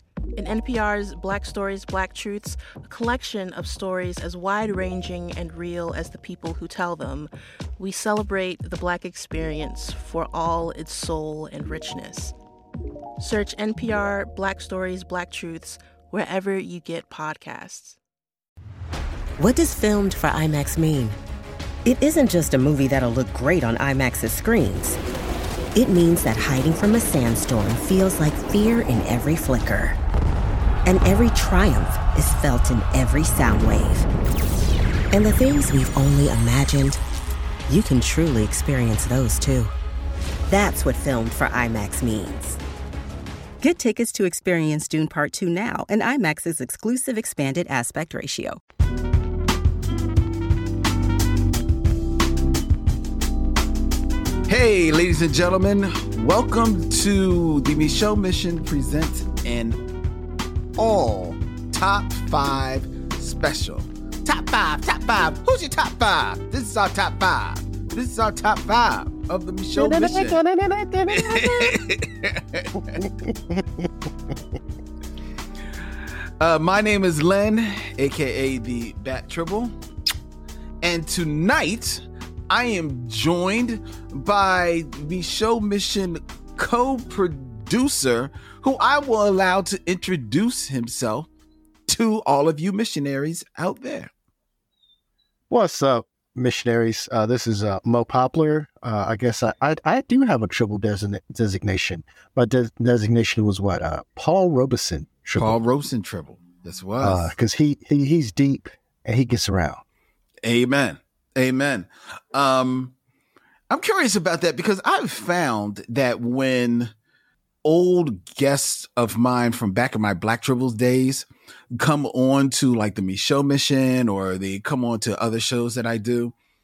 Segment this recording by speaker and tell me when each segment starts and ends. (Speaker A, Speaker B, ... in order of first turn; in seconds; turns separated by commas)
Speaker A: 0.4-12.3, Speaker A: 13.2-18.0, Speaker B: 19.4-21.2, Speaker B: 21.9-25.0, Speaker B: 25.8-30.0, Speaker B: 30.9-34.1, Speaker B: 35.1-37.0, Speaker B: 37.7-39.7, Speaker B: 40.5-42.6, Speaker C: 43.6-48.6, Speaker D: 54.5-59.8, Speaker D: 60.8-70.4, Speaker E: 69.8-71.8, Speaker D: 71.1-73.0, Speaker E: 72.8-73.9, Speaker D: 76.4-79.8, Speaker D: 80.8-91.3, Speaker D: 91.9-94.1, Speaker E: 95.5-105.6, Speaker D: 105.4-107.3, Speaker E: 107.0-109.8, Speaker D: 110.4-112.9, Speaker D: 113.7-116.9, Speaker D: 117.6-126.3